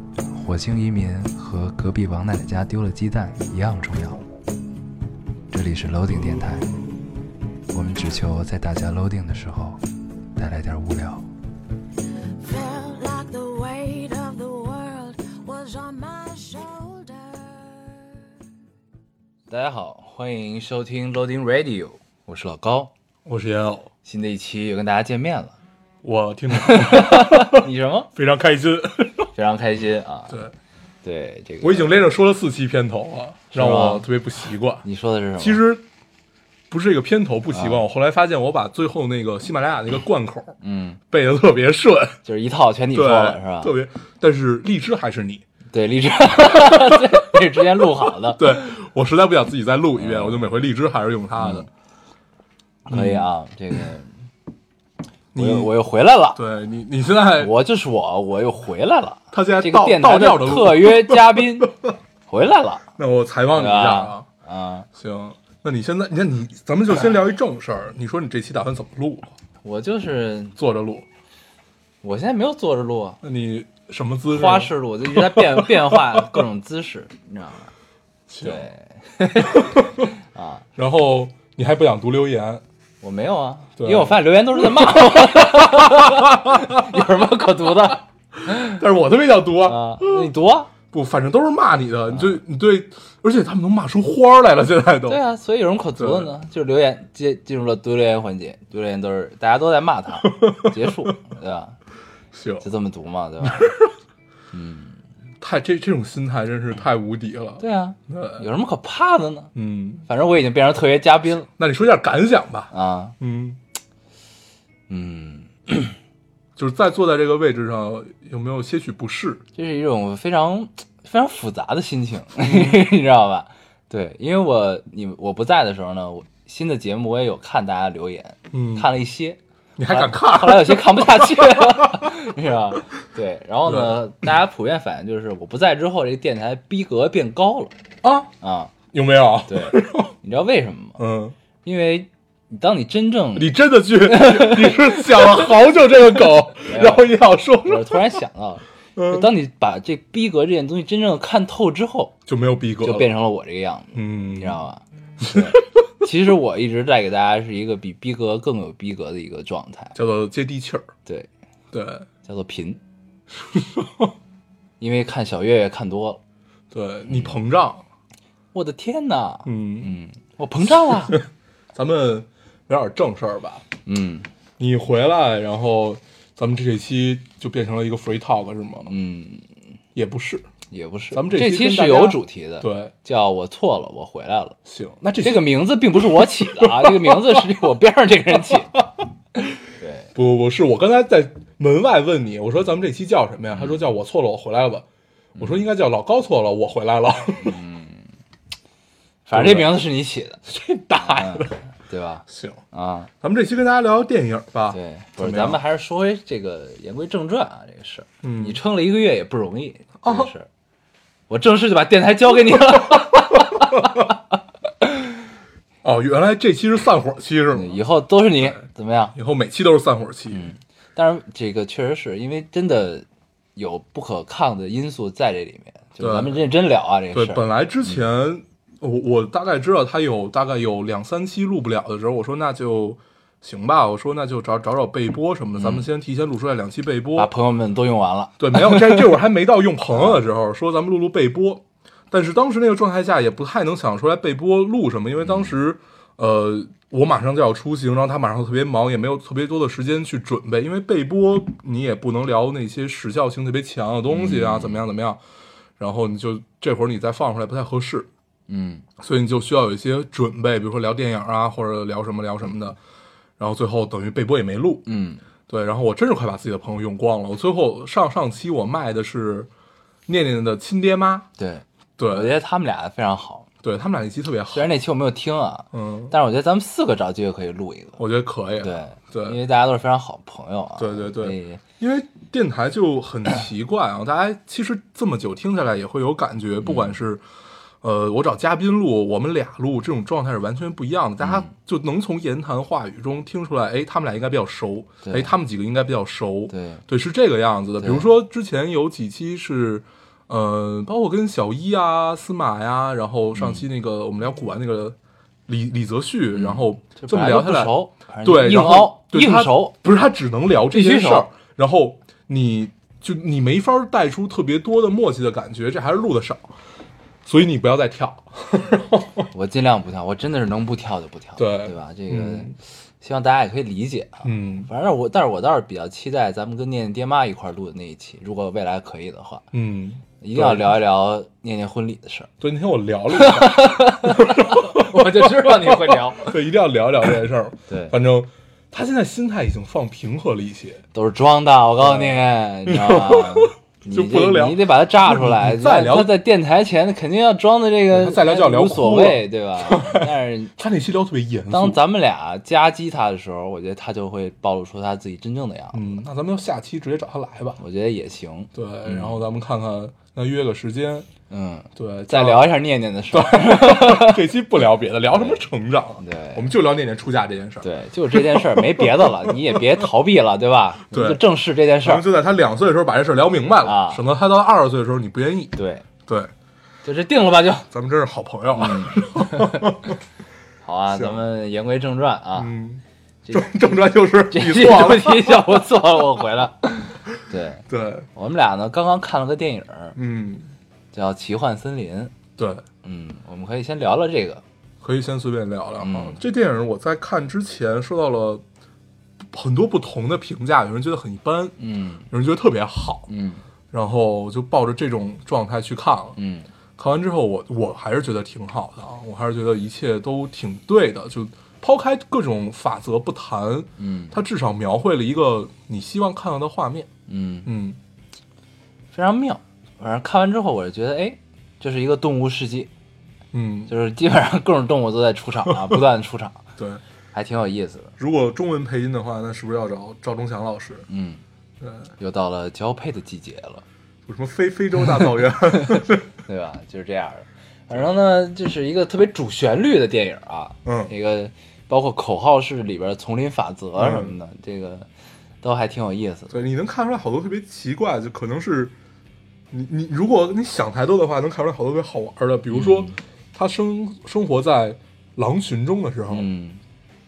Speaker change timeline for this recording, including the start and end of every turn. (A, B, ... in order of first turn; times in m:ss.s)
0:00.3-0:04.2 A
0:05.5-0:06.8 A
0:07.7-0:09.8 A
0:10.4-0:11.2 A
0:12.4-0:17.5 B
0:19.5-0:22.9 A
0:23.2-0:23.9 C
0:24.0-0:25.6 A
0:26.0-0:29.3 C
0:26.6-0:28.1 A
0:29.3-0:30.4 A
0:31.0-0:32.0 A
0:31.6-0:34.8 C
0:33.5-0:34.0 A
0:34.8-0:35.6 A
0:35.4-0:35.8 C
0:36.7-0:40.6 C
0:37.5-0:37.8 A
0:40.6-0:41.0 A
0:41.1-0:42.2 C
0:42.2-0:43.7 A
0:42.9-0:45.4 C
0:45.7-0:48.7 A
0:46.6-0:47.2 C
0:48.3-0:51.7 C
0:50.0-0:50.4 A
0:51.4-0:51.7 A
0:52.9-0:54.1 A
0:52.9-0:53.3 C
0:55.3-0:55.7 C
0:55.4-0:56.4 A
0:56.4-0:57.5 C
0:57.4-1:01.7 A
0:59.3-1:01.9 C
1:02.3-1:02.9 A
1:03.0-1:04.3 C
1:03.5-1:04.9 A
1:04.9-1:09.3 C
1:09.6-1:10.6 A
1:10.6-1:11.0 C
1:12.0-1:13.2 A
1:13.2-1:16.4 C
1:14.3-1:17.7 A
1:18.3-1:18.6 C
1:18.4-1:20.6 A
1:19.4-1:20.1 C
1:20.8-1:22.6 C
1:23.0-1:28.8 A
1:23.8-1:27.0 C
1:28.5-1:30.3 C
1:29.6-1:30.7 A
1:30.9-1:35.2 C
1:32.1-1:32.4 A
1:35.1-1:41.8 A
1:36.0-1:36.3 C
1:40.2-1:41.1 C
1:42.3-1:42.6 C
1:42.6-1:43.7 A
1:43.4-1:43.9 C
1:44.5-1:45.0 A
1:45.4-1:48.4 C
1:47.6-1:49.5 A
1:49.5-1:50.1 C
1:50.1-1:51.5 A
1:51.6-1:53.6 C
1:52.7-1:53.1 A
1:54.9-1:56.0 A
1:56.6-1:59.4 C
1:59.5-2:17.7 A
2:02.4-2:02.8 C
2:08.5-2:08.9 C
2:09.8-2:12.3 C
2:13.7-2:14.0 C
2:18.0-2:18.3 C
2:18.4-2:18.7 A
2:18.9-2:20.1 C
2:19.5-2:21.0 A
2:21.0-2:21.4 C
2:21.6-2:23.5 A
2:23.4-2:28.2 C
2:24.0-2:25.5 A
2:26.6-2:27.1 A
2:27.6-2:32.1 A
2:29.0-2:29.3 C
2:32.3-2:33.1 C
2:32.8-2:40.0 A
2:33.9-2:34.6 C
2:35.2-2:35.6 C
2:39.9-2:40.9 C
2:41.7-2:42.1 C
2:42.2-2:42.8 A
2:43.5-2:44.1 C
2:44.8-2:46.2 A
2:46.7-2:47.8 C
2:47.1-2:47.4 A
2:48.5-2:51.2 A
2:49.4-2:49.9 C
2:50.8-2:53.6 C
2:53.8-2:54.3 A
2:54.6-2:58.9 C
2:58.8-2:59.5 A
2:59.9-3:00.4 C
3:00.7-3:04.6 A
3:01.1-3:02.9 C
3:04.6-3:07.5 C
3:05.2-3:08.8 A
3:08.4-3:09.5 C
3:09.8-3:10.1 A
3:10.1-3:14.8 C
3:13.5-3:13.8 A
3:15.4-3:15.6 A
3:15.4-3:17.6 C
3:17.4-3:18.1 A
3:19.2-3:20.4 A
3:19.3-3:19.8 C
3:20.4-3:21.6 C
3:21.0-3:23.1 A
3:22.3-3:22.6 C
3:23.2-3:25.6 C
3:24.7-3:30.5 A
3:28.2-3:28.6 C
3:30.0-3:30.3 C
3:31.3-3:34.1 A
3:32.7-3:34.0 C
3:35.8-3:37.8 C
3:37.5-3:39.1 A
3:39.1-3:40.5 C
3:40.3-3:48.0 A
3:46.0-3:46.4 C
3:47.1-3:57.3 C
3:55.6-3:55.9 A
3:57.2-3:59.2 A
3:58.4-4:15.2 C
3:59.9-4:00.2 A
4:05.2-4:05.5 A
4:14.1-4:14.8 A
4:15.8-4:18.1 C
4:18.5-4:18.8 A
4:19.0-4:22.8 C
4:23.4-4:24.8 C
4:24.8-4:25.2 A
4:25.5-4:29.5 C
4:30.1-4:31.3 C
4:31.4-4:33.5 A
4:32.0-4:32.3 C
4:33.6-4:34.7 C
4:34.5-4:38.0 A
4:35.7-4:36.1 C
4:38.0-4:39.4 C
4:38.6-4:41.6 A
4:40.8-4:47.2 C
4:46.6-4:47.0 A
4:47.8-5:05.0 C
4:51.2-4:51.5 A
4:55.0-4:55.3 A
4:56.5-4:56.8 A
4:57.8-4:58.0 A
5:03.3-5:03.6 A
5:05.5-5:07.7 C
5:06.3-5:09.8 A
5:08.2-5:16.5 C
5:10.7-5:11.3 A
5:17.2-5:19.3 C
5:19.3-5:29.5 A
5:21.4-5:22.5 C
5:24.2-5:24.7 C
5:29.5-5:30.8 C
5:30.2-5:32.3 A
5:32.4-5:40.8 C
5:33.1-5:36.3 A
5:37.7-5:37.9 A
5:40.9-5:50.5 A
5:41.8-5:46.1 C
5:47.9-5:51.8 C
5:51.5-5:55.9 A
5:55.7-5:57.6 C
5:57.6-5:59.2 A
5:58.5-6:01.1 C
6:01.3-6:04.2 A
6:01.8-6:02.5 C
6:03.1-6:09.9 C
6:05.1-6:05.4 A
6:06.0-6:06.5 A
6:07.6-6:12.1 A
6:10.9-6:11.2 C
6:11.8-6:15.6 C
6:13.6-6:14.0 A
6:15.6-6:15.8 A
6:16.8-6:17.7 A
6:17.7-6:20.0 C
6:18.5-6:19.7 A
6:20.6-6:22.5 A
6:20.9-6:21.2 C
6:22.4-6:25.6 C
6:23.2-6:27.6 A
6:27.7-6:28.1 C
6:28.1-6:30.0 A
6:30.0-6:30.5 C
6:30.9-6:32.1 A
6:32.4-6:32.6 C
6:32.8-6:34.4 A
6:34.8-6:38.4 C
6:35.8-6:36.2 A
6:39.3-6:41.6 C
6:41.6-6:42.1 A
6:42.1-6:43.1 C
6:43.1-6:43.4 A
6:43.7-6:46.2 C
6:46.2-6:46.5 A
6:46.8-6:56.9 C
6:53.8-6:54.2 A
6:57.1-6:57.5 A
6:57.4-6:57.8 C
6:58.9-7:02.7 A
7:03.3-7:03.7 C
7:03.7-7:06.4 A
7:06.6-7:06.8 C
7:07.1-7:07.9 A
7:08.0-7:10.8 C
7:10.9-7:11.2 A
7:11.6-7:11.9 C
7:12.0-7:13.6 A
7:14.1-7:16.0 C
7:15.6-7:24.9 A
7:20.6-7:20.9 C
7:23.8-7:24.1 C
7:25.4-7:26.3 A
7:26.3-7:28.7 C
7:29.5-7:36.3 C
7:32.5-7:33.0 A
7:36.1-7:36.6 A